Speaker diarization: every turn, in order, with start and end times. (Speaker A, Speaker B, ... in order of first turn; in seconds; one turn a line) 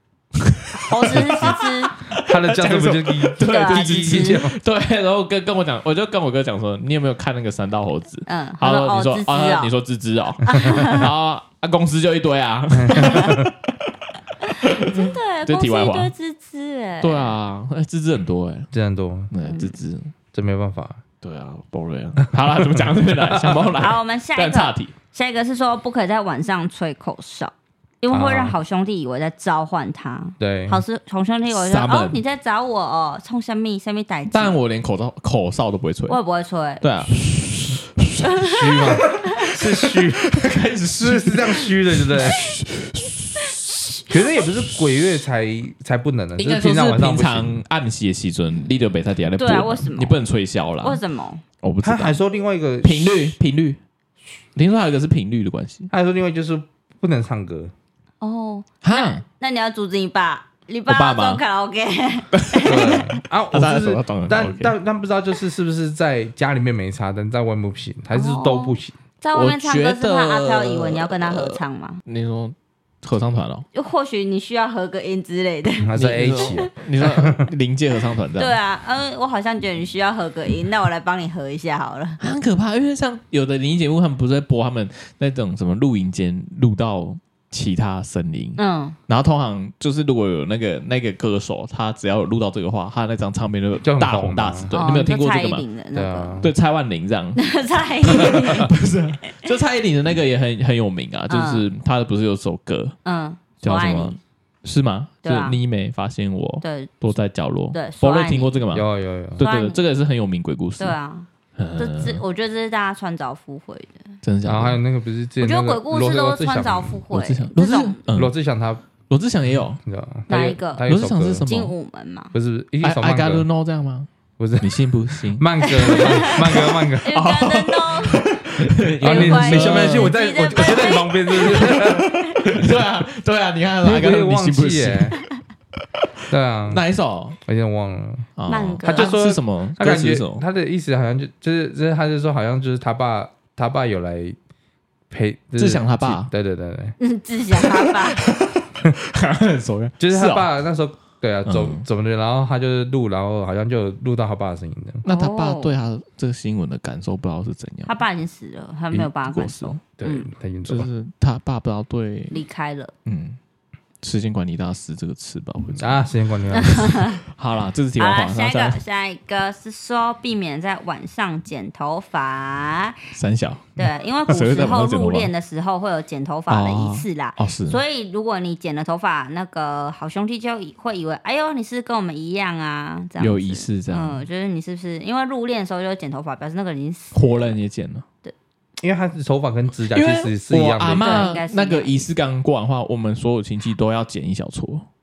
Speaker A: 0.3-13.7
Speaker B: 0.7-1.9
Speaker C: 1.1-1.5
Speaker C: 2.1-4.6
Speaker B: 3.4-4.4
Speaker B: 8.3-9.7
Speaker B: 10.4-11.1
Speaker C: 12.7-13.5
Speaker B: 14.4-17.4
Speaker A: 14.6-16.1
Speaker A: 17.0-18.7
Speaker C: 18.7-19.3
Speaker A: 19.3-20.1
Speaker B: 19.5-19.7
Speaker C: 20.3-21.0
Speaker A: 21.2-24.9
Speaker C: 22.4-23.7
Speaker B: 23.8-34.6
Speaker C: 28.1-28.6
Speaker C: 30.4-30.8
Speaker A: 31.5-32.2
Speaker A: 34.3-36.2
Speaker B: 36.1-36.9
Speaker A: 36.8-44.0
Speaker C: 38.5-40.4
Speaker B: 39.2-39.5
Speaker C: 41.0-42.5
Speaker C: 44.1-47.6
Speaker A: 46.4-51.0
Speaker B: 49.4-50.2
Speaker B: 50.8-51.4
Speaker A: 51.6-52.2
Speaker C: 51.8-53.3
Speaker A: 52.8-53.8
Speaker A: 54.6-55.9
Speaker C: 55.9-57.7
Speaker B: 58.2-63.1
Speaker A: 58.8-59.2
Speaker A: 60.9-61.4
Speaker A: 62.4-64.7
Speaker C: 62.6-69.0
Speaker B: 68.1-72.0
Speaker A: 69.3-73.7
Speaker B: 73.7-76.7
Speaker C: 75.8-77.5
Speaker A: 76.0-78.6
Speaker B: 78.4-82.2
Speaker A: 82.2-95.6
Speaker B: 88.6-89.0
Speaker C: 93.8-94.7
Speaker B: 94.7-96.4
Speaker C: 96.0-96.5
Speaker A: 96.4-97.4
Speaker B: 97.4-98.7
Speaker A: 98.1-103.0
Speaker B: 101.3-101.7
Speaker B: 103.0-104.2
Speaker A: 103.6-111.0
Speaker B: 105.2-105.6
Speaker B: 106.6-106.9
Speaker B: 107.7-108.6
Speaker C: 108.7-109.4
Speaker B: 109.4-109.8
Speaker B: 110.8-114.0
Speaker A: 111.6-112.2
Speaker A: 114.2-114.8
Speaker C: 114.5-117.0
Speaker B: 115.4-118.0
Speaker A: 117.1-118.3
Speaker C: 118.1-118.8
Speaker A: 119.1-119.8
Speaker C: 119.8-121.5
Speaker B: 120.3-120.9
Speaker A: 120.9-121.7
Speaker B: 121.5-122.3
Speaker C: 122.3-123.5
Speaker A: 122.8-124.1
Speaker C: 124.4-127.1
Speaker A: 124.6-135.2
Speaker B: 125.6-128.3
Speaker C: 129.0-132.9
Speaker B: 129.0-132.4
Speaker C: 133.8-135.2
Speaker C: 136.3-136.8
Speaker A: 136.7-137.4
Speaker C: 137.5-138.3
Speaker A: 138.4-140.4
Speaker B: 138.5-139.1
Speaker C: 138.8-144.4
Speaker C: 145.1-146.9
Speaker A: 145.6-146.3
Speaker B: 147.0-148.3
Speaker A: 147.6-150.5
Speaker C: 150.0-155.0
Speaker A: 151.5-151.8
Speaker A: 155.0-158.0
Speaker B: 155.1-155.7
Speaker B: 157.9-160.3
Speaker A: 158.9-159.8
Speaker C: 160.0-160.9
Speaker A: 160.7-162.4
Speaker B: 162.3-162.9
Speaker A: 163.1-163.4
Speaker A: 164.0-168.8
Speaker C: 165.8-166.9
Speaker B: 166.5-167.2
Speaker B: 168.0-173.0
Speaker A: 173.2-175.3
Speaker B: 173.8-187.6
Speaker A: 176.5-177.8
Speaker A: 183.2-184.2
Speaker A: 187.1-188.1
Speaker C: 188.8-191.3
Speaker A: 189.9-194.9
Speaker B: 191.0-191.9